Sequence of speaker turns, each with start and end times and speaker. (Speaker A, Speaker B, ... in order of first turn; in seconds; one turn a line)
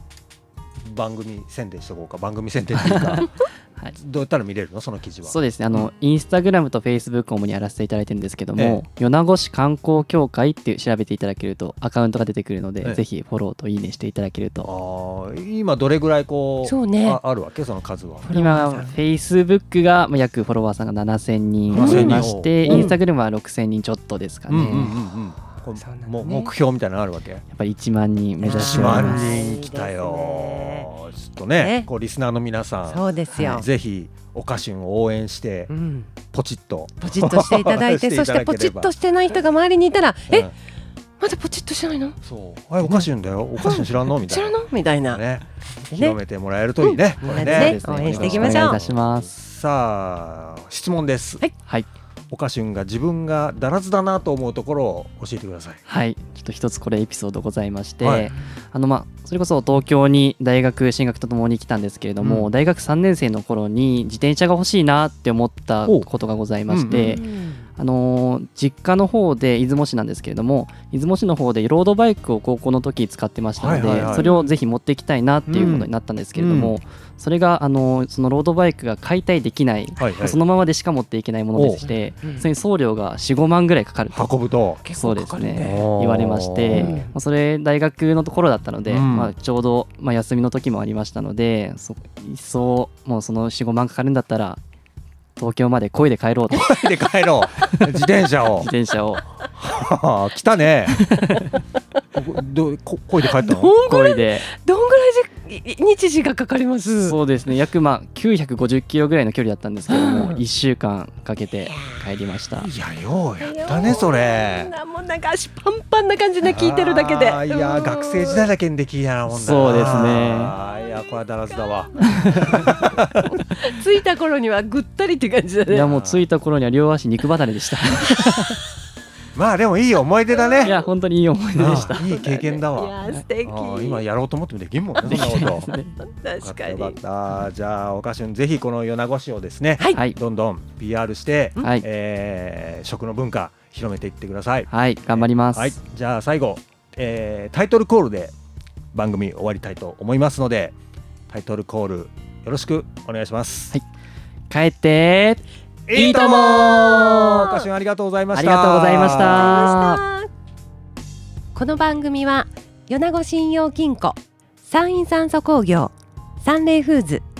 Speaker A: 0.8-3.3
Speaker B: 2.7-4.0
Speaker A: 4.0-5.9
Speaker B: 5.2-14.7
Speaker A: 8.6-8.8
Speaker A: 14.6-18.3
Speaker C: 16.6-17.2
Speaker C: 18.2-18.9
Speaker B: 18.3-24.9
Speaker A: 21.7-22.9
Speaker C: 21.7-23.0
Speaker A: 24.5-27.4
Speaker C: 25.8-26.5
Speaker B: 27.5-29.3
Speaker C: 28.4-30.9
Speaker A: 28.4-35.7
Speaker C: 31.6-31.9
Speaker C: 32.9-33.6
Speaker C: 35.7-36.1
Speaker A: 36.3-38.9
Speaker C: 37.0-40.5
Speaker C: 41.2-42.2
Speaker A: 42.2-51.4
Speaker C: 42.8-43.1
Speaker C: 43.6-45.2
Speaker C: 45.8-46.2
Speaker C: 46.8-48.8
Speaker B: 47.2-49.3
Speaker A: 52.3-55.8
Speaker B: 55.9-67.2
Speaker A: 58.0-58.3
Speaker A: 62.2-62.5
Speaker A: 66.7-67.2
Speaker C: 66.9-67.7
Speaker B: 67.8-84.3
Speaker A: 73.5-74.3
Speaker C: 73.8-74.6
Speaker A: 75.5-76.8
Speaker A: 80.0-80.4
Speaker A: 81.5-81.8
Speaker C: 81.7-82.5
Speaker A: 84.1-84.8
Speaker C: 84.8-85.8
Speaker B: 84.9-94.6
Speaker A: 85.6-86.9
Speaker C: 86.7-87.1
Speaker A: 88.8-89.3
Speaker B: 95.4-96.8
Speaker A: 96.5-98.7
Speaker B: 97.6-97.8
Speaker B: 98.6-99.2
Speaker A: 99.6-101.1
Speaker B: 100.9-101.5
Speaker A: 102.1-103.7
Speaker C: 103.3-107.2
Speaker B: 103.8-104.5
Speaker B: 107.0-112.7
Speaker C: 109.9-110.4
Speaker C: 111.7-112.0
Speaker A: 112.6-114.7
Speaker C: 113.4-118.5
Speaker A: 116.4-123.3
Speaker B: 119.3-120.5
Speaker C: 122.0-125.9
Speaker B: 122.1-122.7
Speaker B: 125.7-128.6
Speaker A: 125.8-126.3
Speaker A: 129.3-130.8
Speaker C: 130.3-130.9
Speaker B: 130.6-132.1
Speaker A: 131.6-135.7
Speaker C: 131.8-134.0
Speaker B: 135.0-135.9
Speaker C: 136.1-137.0
Speaker A: 136.4-148.3
Speaker C: 139.8-140.0
Speaker B: 144.7-145.8
Speaker A: 148.9-150.7
Speaker A: 151.3-153.7
Speaker B: 154.5-155.4
Speaker A: 155.9-159.7
Speaker C: 155.9-157.6
Speaker B: 158.3-160.0
Speaker C: 159.0-160.3
Speaker C: 161.5-167.2